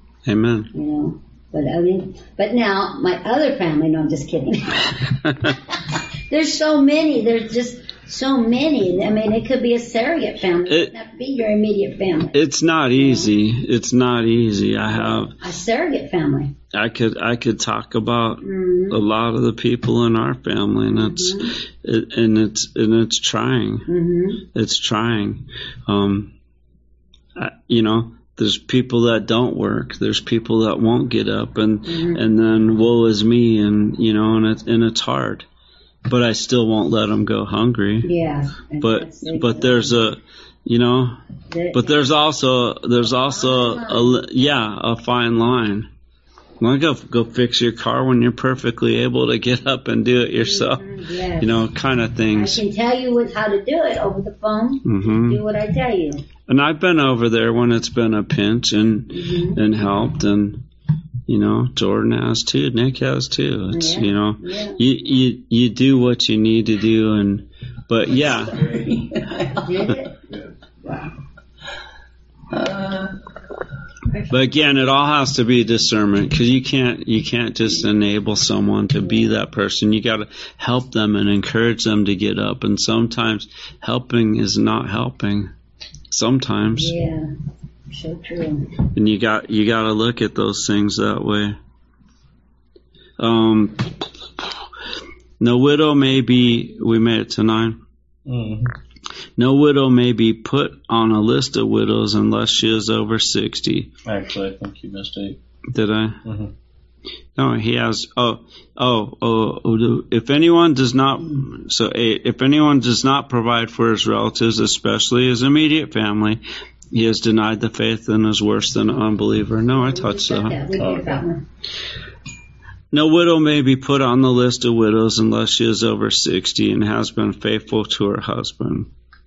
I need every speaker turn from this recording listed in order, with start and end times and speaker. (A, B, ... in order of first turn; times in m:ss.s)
0:00.3-0:00.7 A
0:00.7-0:12.4 B
0:12.4-0:15.3 A
0:13.0-0:13.3 B
0:14.9-0:16.6 B
0:16.7-0:23.9 A
0:18.4-0:19.0 B
0:21.0-0:21.5 B
0:23.9-0:24.4 B
0:24.6-0:26.3 A
0:27.4-0:35.5 A
0:31.9-0:32.2 B
0:36.1-0:38.1 A
0:38.0-0:39.9 B
0:38.8-0:41.2 A
0:41.5-0:42.0 B
0:41.7-0:45.9 A
0:43.0-0:44.2 B
0:46.6-0:52.6 A
0:50.4-0:51.7 B
0:52.3-0:56.2 B
0:54.9-0:55.4 A
0:56.5-1:00.6 A
0:59.1-0:59.6 B
1:01.3-1:08.6 A
1:03.7-1:04.8 B
1:08.1-1:10.0 C
1:09.5-1:11.1 B
1:12.5-1:13.2 C
1:14.3-1:25.5 A
1:26.1-1:26.9 A
1:26.8-1:27.3 B
1:27.9-1:28.7 B
1:28.9-1:31.6 A
1:33.2-1:34.4 A
1:35.4-1:37.8 A
1:38.2-1:38.7 D
1:39.4-1:43.9 A
1:44.0-1:45.4 D
1:45.7-1:46.2 A
1:46.2-1:46.5 D
1:47.4-2:00.6 A
1:59.7-2:01.4 B
2:00.8-2:01.2 D
2:02.9-2:08.9 A